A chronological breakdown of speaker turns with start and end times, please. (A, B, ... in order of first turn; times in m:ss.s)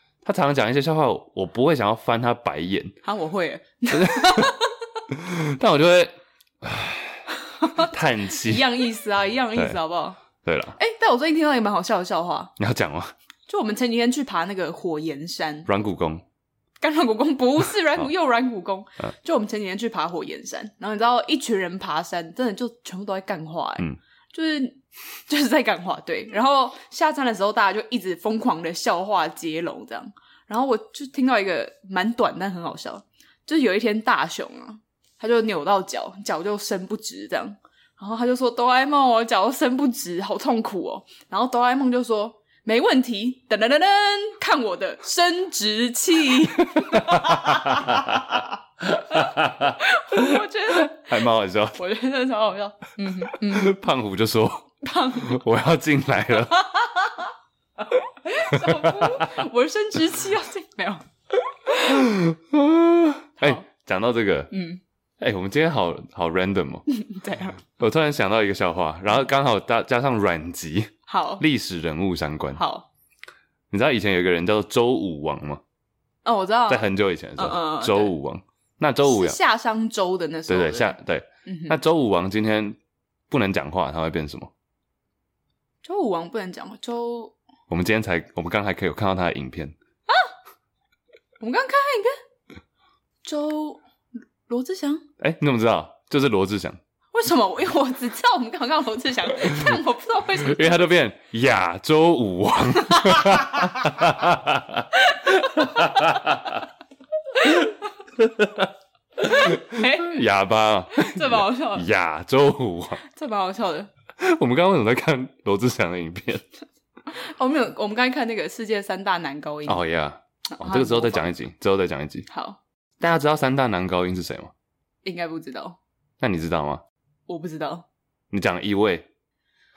0:00.2-0:03.0 A
0:03.0-0:04.7 B
0:03.9-0:04.6 A
0:05.1-0:08.7 A
0:07.6-0:10.2 B
0:10.4-0:10.8 A
0:10.8-0:12.5 B
0:12.6-0:13.1 A
0:13.5-0:15.7 B
0:15.7-0:16.2 A
0:16.8-0:48.5 B
0:46.7-0:51.8 A
0:49.1-0:53.8 B
0:53.2-0:56.6 A
0:54.8-0:55.4 B
0:56.4-1:01.0 B
0:58.4-0:59.4 A
1:01.7-1:02.0 B
1:01.8-1:04.5 A
1:04.5-1:04.8 B
1:05.2-1:06.9 A
1:06.9-1:07.6 B
1:07.8-1:12.6 A
1:11.1-1:11.4 B
1:12.6-1:12.9 B
1:13.7-1:15.6 A
1:16.2-1:18.2 B
1:16.7-1:19.4 A
1:19.0-1:21.8 B
1:20.5-1:22.8 A
1:23.3-1:24.5 A
1:25.8-1:27.4 B
1:27.7-1:29.8 A
1:31.4-1:32.2 B
1:33.2-1:33.8 B
1:34.5-1:35.0 B
1:35.2-1:36.8 A
1:37.1-1:40.9 B
1:40.4-1:46.6 A
1:42.9-1:43.8 B
1:44.9-1:46.2 B
1:47.3-1:47.7 B
1:48.2-1:48.7 A
1:49.2-1:53.0 A
1:49.2-1:50.2 B
1:50.9-1:51.9 B
1:53.0-1:53.9 B
1:54.2-1:56.4 A
1:57.1-1:59.8 B
1:59.7-2:02.3 A
2:00.5-2:01.3 B
2:02.3-2:02.6 B
2:03.0-2:04.5 A
2:05.0-2:05.8 B
2:06.2-2:06.8 A
2:07.3-2:07.8 B
2:08.3-2:09.1 A